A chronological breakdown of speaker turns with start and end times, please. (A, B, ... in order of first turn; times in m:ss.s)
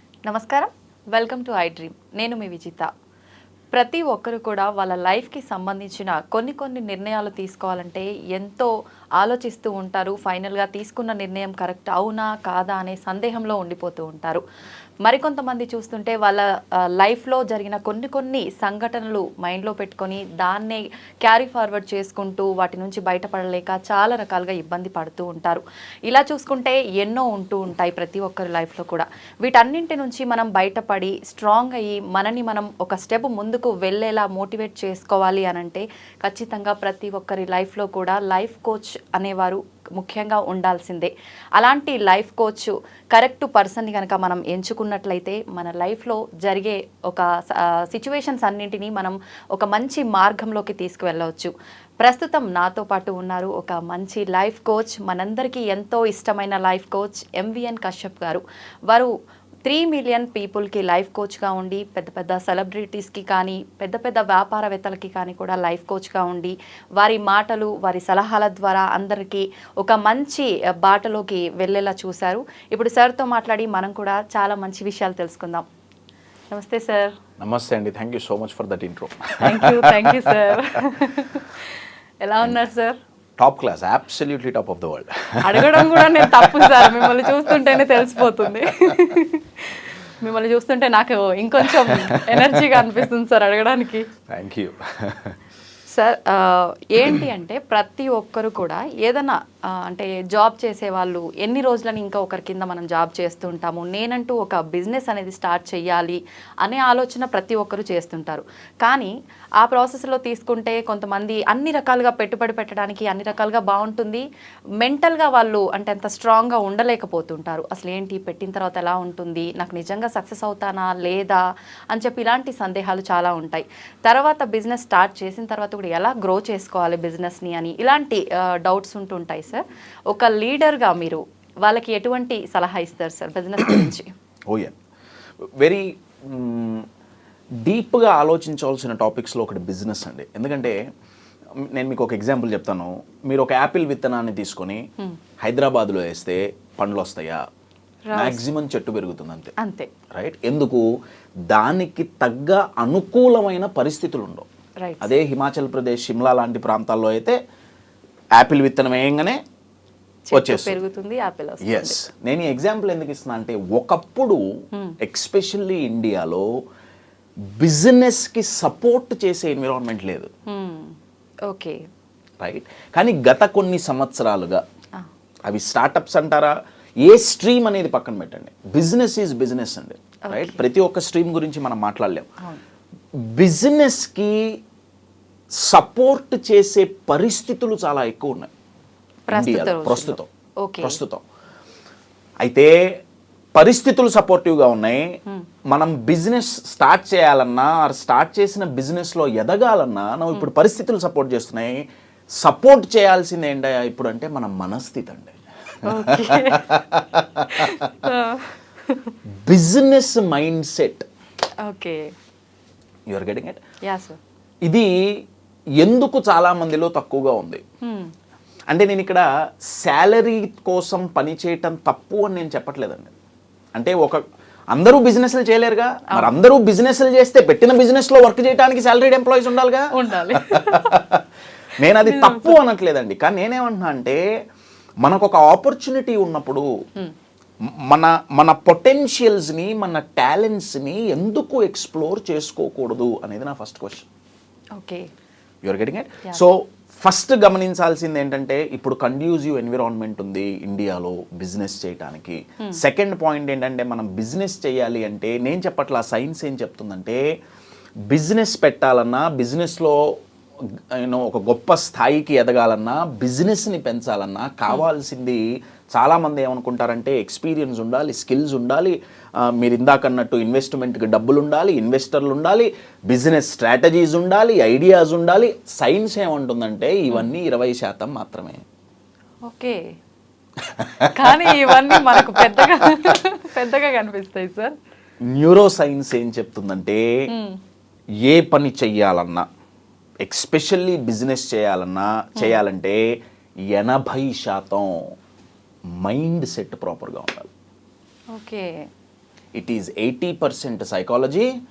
0:00.3-0:02.9 A
0:03.7-0:14.4 A
0:15.0-0:16.4 A
0:17.0-0:59.1 A
0:59.6-1:15.6 A
1:16.5-1:17.1 A
1:17.4-1:20.5 B
1:19.4-1:21.6 A
1:22.2-1:23.0 A
1:23.4-1:29.1 B
1:25.4-1:34.1 A
1:31.6-1:33.0 B
1:34.3-1:35.4 B
1:35.9-1:54.2 A
1:54.8-2:01.4 A
2:01.9-2:14.1 A
2:15.6-2:16.8 B
2:17.6-2:20.8 B
2:21.7-2:24.8 B
2:25.4-2:27.4 B
2:28.0-2:28.4 A
2:28.1-2:29.5 B
2:29.6-2:29.9 A
2:30.1-2:30.8 B
2:31.5-2:34.4 B
2:34.8-2:35.1 A
2:35.0-2:37.4 B
2:38.4-2:39.4 B
2:40.3-2:42.0 A
2:40.3-2:40.8 B
2:41.6-2:44.4 B
2:45.0-2:46.5 B
2:47.6-2:50.3 B
2:50.5-2:50.9 A
2:51.5-2:51.8 A
2:52.4-2:54.6 B
2:55.5-3:02.3 B
3:00.3-3:00.6 A
3:03.3-3:04.5 B
3:05.6-3:08.5 B
3:09.3-3:11.0 A
3:09.3-3:10.3 B
3:10.8-3:11.2 B
3:12.4-3:12.7 B
3:13.5-3:15.0 B
3:15.7-3:21.8 B
3:22.4-3:25.3 B
3:25.8-3:26.8 A
3:26.0-3:27.9 B
3:27.5-3:29.1 A
3:29.4-3:31.0 B
3:31.6-3:32.0 A
3:33.1-3:33.6 B
3:33.8-3:34.2 A
3:34.6-3:34.9 B
3:35.8-3:37.6 B
3:37.8-3:38.1 A
3:38.7-3:43.1 B
3:43.8-3:44.2 B
3:44.7-3:51.2 B
3:49.9-3:51.0 A
3:51.8-3:54.2 B
3:52.0-3:52.6 A
3:55.0-3:56.7 B
3:57.9-4:04.0 B
4:04.8-4:05.1 A
4:05.6-4:17.2 B
4:18.1-4:20.0 B
4:21.0-4:38.6 B
4:39.4-4:39.9 A
4:40.7-4:43.1 B
4:41.0-4:44.7 A
4:45.2-4:47.1 B
4:47.3-4:47.6 A
4:48.2-4:49.4 B
4:50.2-4:53.1 B
4:53.7-4:55.0 B
4:56.0-4:57.5 B
4:58.3-4:58.7 A
4:59.5-5:01.5 B